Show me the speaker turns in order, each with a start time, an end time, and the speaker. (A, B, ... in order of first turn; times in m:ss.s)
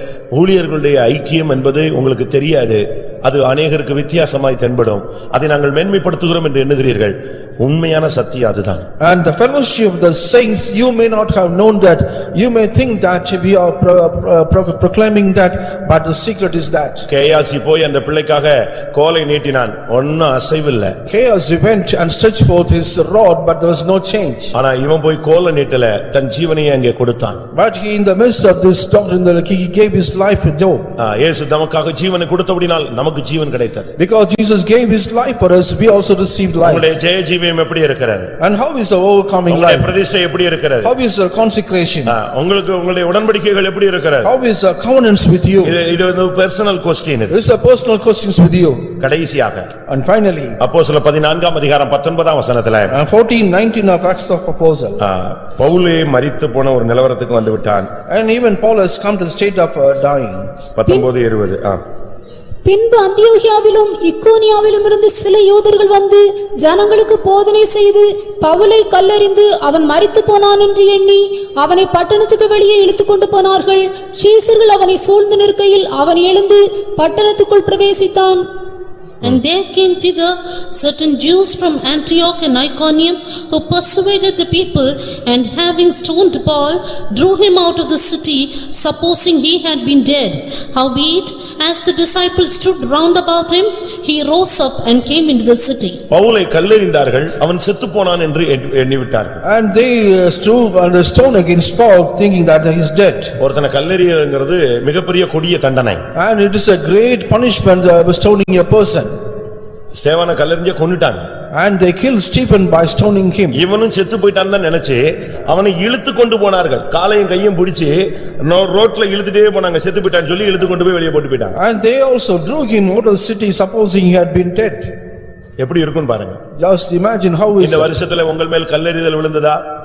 0:00.3-0:08.9 A
0:09.0-0:17.1 B
0:17.1-0:21.0 A
0:21.1-0:24.5 B
0:24.5-0:27.4 A
0:27.5-0:30.9 B
0:31.0-0:33.9 A
0:34.0-0:36.9 B
0:36.6-0:38.3 A
0:38.4-0:39.9 B
0:39.5-0:40.9 A
0:40.8-0:42.2 B
0:42.1-0:44.3 A
0:44.2-0:45.8 B
0:45.6-0:47.4 A
0:47.3-0:48.9 B
0:49.0-0:49.7 A
0:49.9-0:50.6 B
0:50.6-0:52.9 A
0:52.9-0:55.0 B
0:55.0-0:57.9 A
0:58.1-1:00.5 B
1:00.8-1:01.8 A
1:02.6-1:18.4 C
1:19.2-1:36.0 D
1:36.1-1:39.4 A
1:39.4-1:43.4 B
1:43.4-1:46.0 A
1:46.2-1:49.1 B
1:50.0-1:51.3 A
1:51.5-1:53.6 B
1:53.6-2:01.6 A
2:01.6-2:04.9 B
2:05.6-2:06.4 A
2:06.6-2:07.9 B
2:07.6-2:09.6 A